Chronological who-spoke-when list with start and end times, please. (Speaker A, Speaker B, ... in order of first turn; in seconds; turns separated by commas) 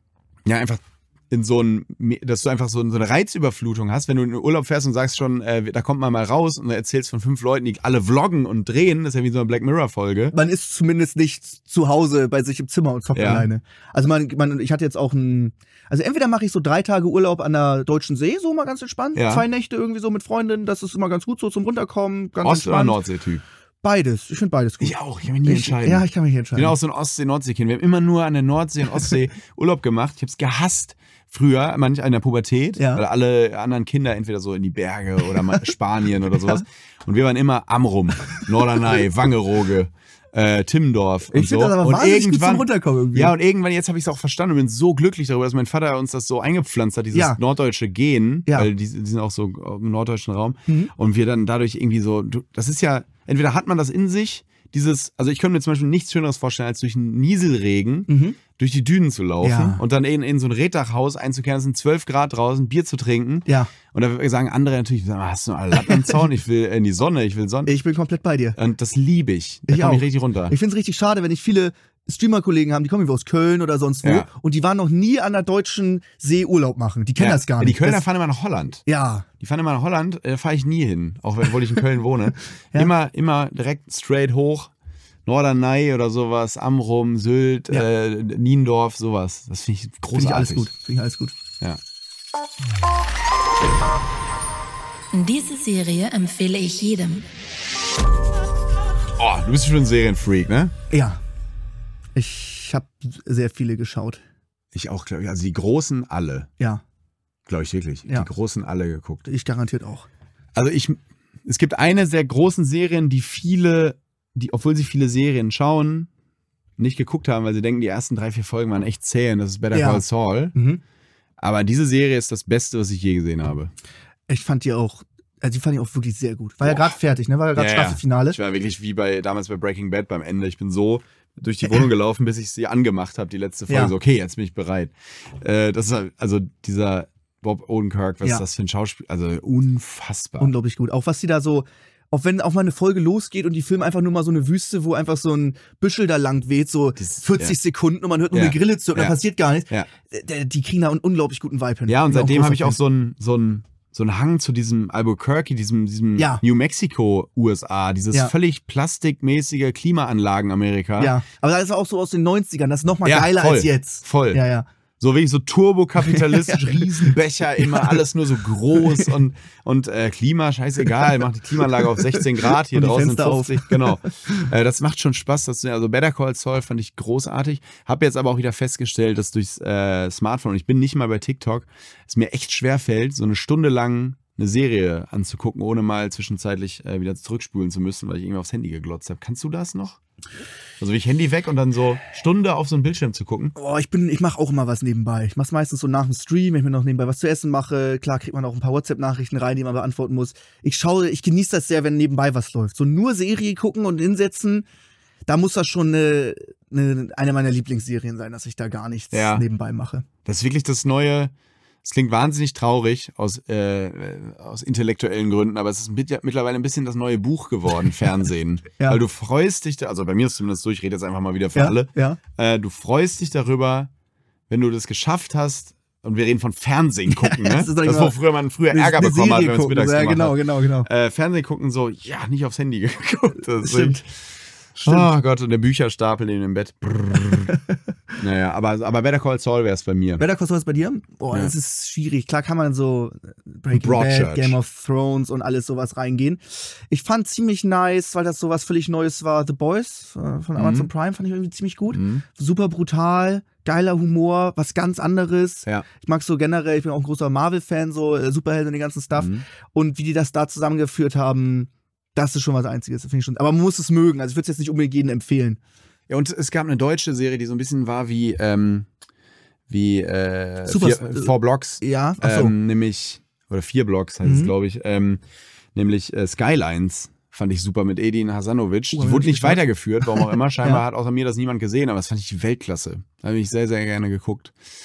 Speaker A: 0.5-10.3, Speaker B: 10.3-23.0, Speaker A: 13.1-13.5, Speaker A: 19.1-19.4, Speaker A: 22.4-23.4, Speaker B: 23.8-26.8, Speaker A: 24.8-26.0, Speaker A: 26.6-67.7, Speaker B: 32.8-33.0, Speaker B: 41.3-43.3, Speaker B: 47.1-47.4, Speaker B: 50.7-50.9, Speaker B: 58.1-58.4, Speaker B: 59.4-59.8, Speaker B: 65.8-66.2, Speaker B: 67.7-68.6, Speaker A: 68.6-70.6, Speaker B: 69.7-78.0, Speaker A: 74.0-74.3, Speaker A: 77.2-78.8, Speaker B: 78.9-79.3, Speaker A: 79.4-84.7, Speaker A: 85.3-90.7, Speaker B: 90.1-91.3, Speaker C: 95.1-97.2, Speaker A: 99.2-100.7, Speaker B: 100.9-101.2, Speaker B: 102.1-104.2, Speaker A: 104.7-106.5, Speaker A: 107.5-109.2, Speaker B: 109.3-110.1, Speaker A: 110.5-116.1, Speaker A: 116.8-120.5, Speaker B: 119.7-120.0, Speaker B: 120.5-120.8, Speaker A: 121.4-123.7, Speaker B: 124.3-128.4, Speaker A: 126.6-126.9, Speaker A: 127.5-140.5, Speaker B: 133.7-133.9, Speaker B: 140.4-152.8, Speaker A: 147.0-147.6, Speaker A: 148.3-149.2, Speaker A: 151.9-161.2, Speaker B: 156.2-156.4, Speaker B: 161.0-164.7, Speaker A: 163.0-164.4, Speaker A: 165.0-190.0, Speaker B: 166.0-168.0, Speaker B: 168.8-169.1, Speaker B: 171.8-174.0, Speaker A: 190.8-193.5, Speaker B: 193.6-204.7, Speaker B: 205.3-210.1, Speaker A: 209.1-209.4, Speaker A: 210.2-211.3, Speaker A: 211.8-223.9, Speaker B: 221.6-222.2, Speaker A: 224.5-234.1, Speaker B: 227.1-228.2, Speaker B: 228.7-230.9, Speaker B: 233.6-234.0, Speaker B: 234.8-235.1, Speaker A: 234.8-237.6, Speaker A: 238.2-240.2, Speaker B: 240.2-265.6, Speaker A: 243.7-244.6, Speaker A: 250.6-250.9, Speaker A: 251.9-252.2, Speaker A: 259.1-259.5, Speaker A: 266.1-268.9, Speaker A: 269.7-275.2, Speaker B: 270.6-272.5, Speaker B: 274.2-274.5, Speaker A: 275.8-284.6, Speaker B: 278.9-279.6, Speaker B: 280.1-280.8